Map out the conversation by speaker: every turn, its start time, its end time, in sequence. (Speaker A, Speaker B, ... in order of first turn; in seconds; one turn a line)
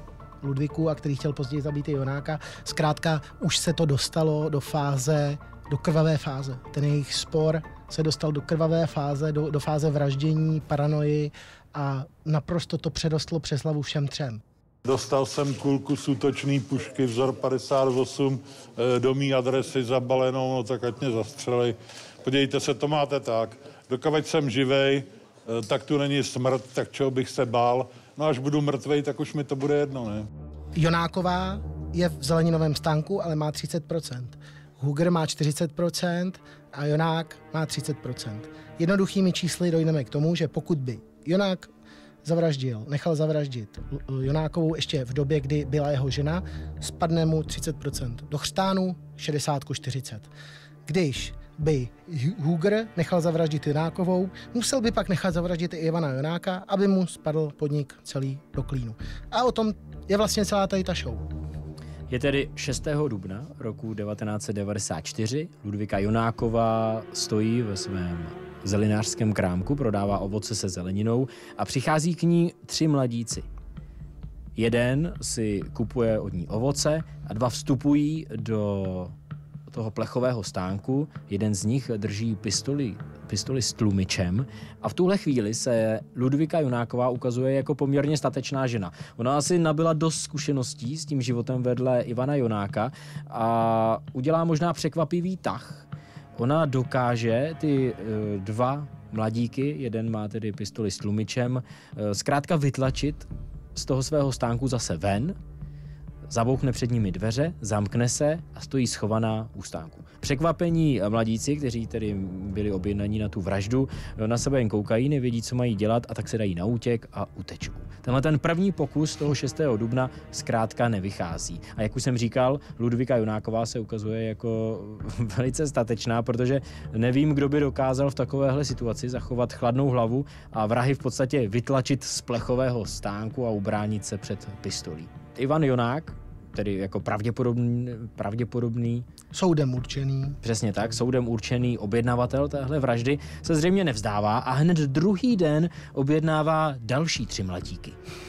Speaker A: 0.4-14.4
Speaker B: 14.8-30.3
Speaker A: 30.8-41.7
Speaker A: 42.2-50.3
Speaker A: 50.9-61.3
Speaker C: 62.1-73.5
Speaker C: 74.5-79.1
Speaker C: 79.7-105.4
Speaker C: 106.3-139.1
Speaker A: 139.3-140.4
Speaker C: 140.4-148.0